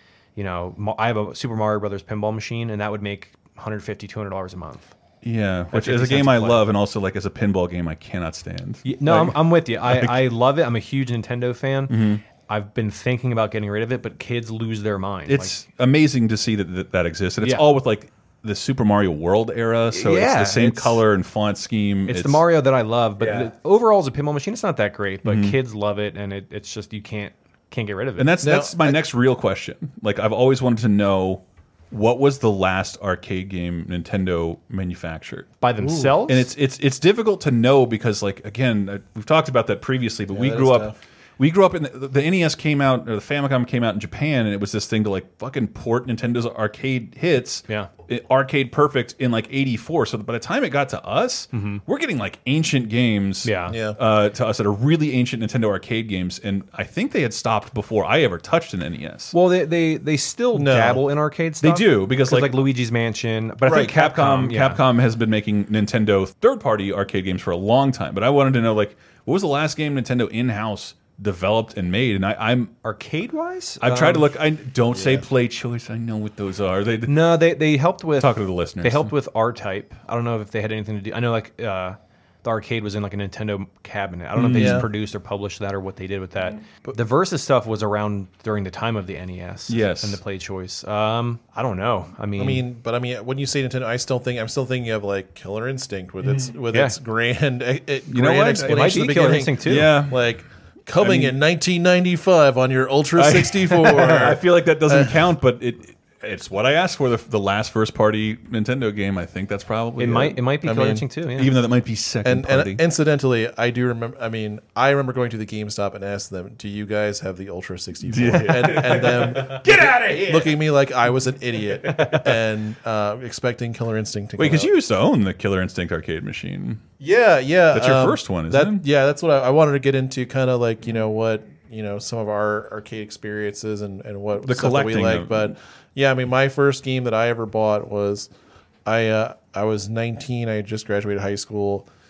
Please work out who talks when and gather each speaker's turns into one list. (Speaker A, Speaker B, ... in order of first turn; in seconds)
Speaker A: 0.4-4.9, 5.7-6.7, 8.8-15.6, 17.4-17.7, 19.9-21.0, 22.1-28.5, 35.6-36.5, 51.5-51.8, 53.5-53.8, 59.3-64.8, 72.8-74.3, 77.1-92.6, 98.7-100.0, 110.0-111.5
Speaker B: 5.2-10.2, 11.9-12.2, 15.3-22.4, 23.2-23.5, 25.2-25.6, 28.2-35.5, 36.3-59.4, 61.6-62.5, 63.7-72.7, 73.8-77.2, 78.2-79.1, 84.3-84.9, 89.7-90.2, 96.2-96.5, 98.1-99.0, 99.6-100.2, 101.0-101.4, 103.2-110.4, 111.4-112.8, 118.1-120.5, 124.4-126.8, 127.7-128.8, 134.4-135.6
Speaker C: 28.4-29.0, 35.8-36.2, 40.3-41.0, 53.7-54.0, 60.5-61.0, 74.9-75.2, 84.5-84.9, 92.4-105.2, 110.6-111.0, 112.2-124.7, 127.0-138.3, 138.9-141.9